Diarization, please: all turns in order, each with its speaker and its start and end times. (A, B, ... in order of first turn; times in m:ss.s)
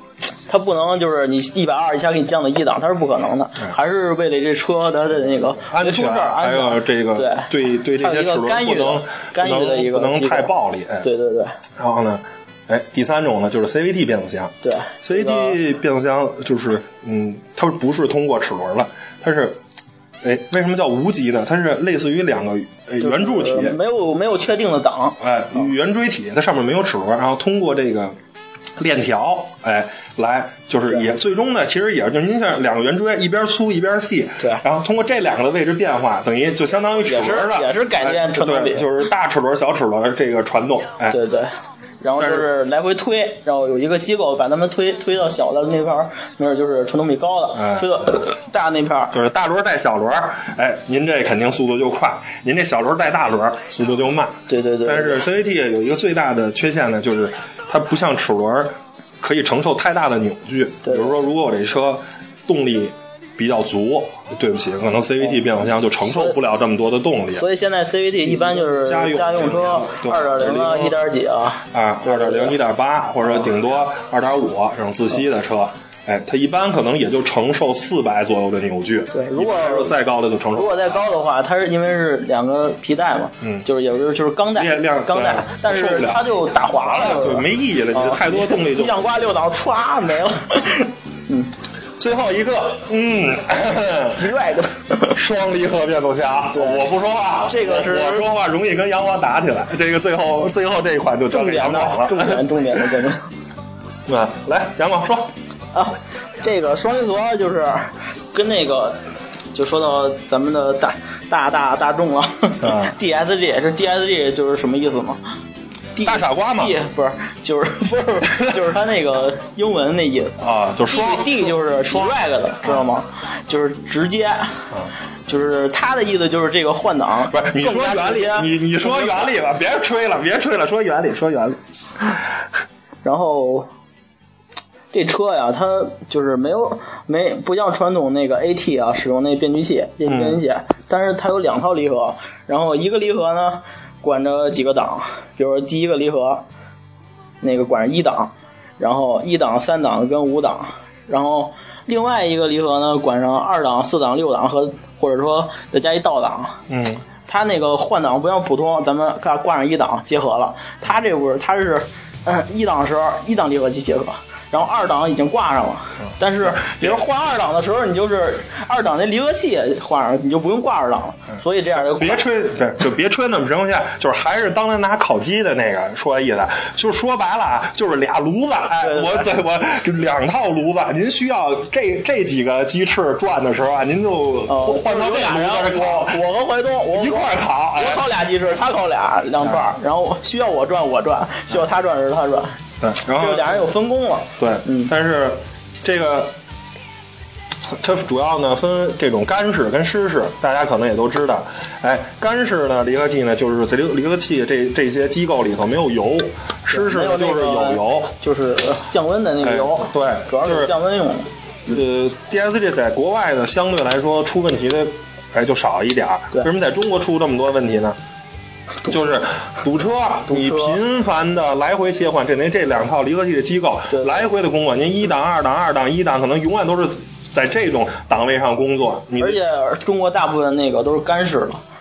0:00.5-0:11.6 A
0:05.6-0:11.1 B
0:11.8-0:19.6 B
0:14.6-0:15.6 A
0:20.2-0:23.8 B
0:23.0-0:25.2 A
0:25.2-0:28.2 B
0:28.8-0:41.2 B
0:37.1-0:38.9 A
0:41.1-0:49.1 A
0:42.2-0:42.5 B
0:47.6-0:47.9 B
0:49.1-1:07.4 B
0:54.5-0:55.3 A
1:00.8-1:01.1 A
1:06.1-1:06.4 A
1:07.3-1:12.6 A
1:08.2-1:11.0 B
1:11.7-1:21.1 B
1:19.1-1:20.0 A
1:20.6-1:31.5 A
1:23.4-1:23.7 B
1:24.6-1:29.1 B
1:32.0-1:34.2 B
1:34.2-1:35.2 A
1:35.1-1:42.4 B
1:36.5-1:36.9 A
1:37.5-1:38.3 A
1:41.3-1:43.2 A
1:44.1-1:45.3 B
1:45.7-1:49.0 A
1:49.5-1:55.2 A
1:52.6-1:52.9 B
1:56.0-2:04.6 A
1:56.0-1:56.8 B
2:00.4-2:02.8 B
2:05.3-2:09.3 A
2:07.3-2:11.6 B
2:13.0-2:13.7 A
2:14.9-2:26.4 A
2:20.1-2:20.4 B
2:27.4-2:36.6 A
2:36.7-2:37.0 B
2:37.3-2:52.2 A
2:46.5-2:47.0 B
2:51.8-3:06.2 B
2:58.8-2:59.3 A
3:04.5-3:14.9 A
3:06.9-3:08.1 B
3:12.8-3:13.6 B
3:14.4-3:16.4 B
3:17.7-3:28.1 B
3:26.7-3:31.3 A
3:29.4-3:30.7 B
3:31.7-3:38.0 B
3:38.8-3:49.4 B
3:40.3-3:40.8 A
3:43.9-3:44.2 A
3:49.2-3:51.6 A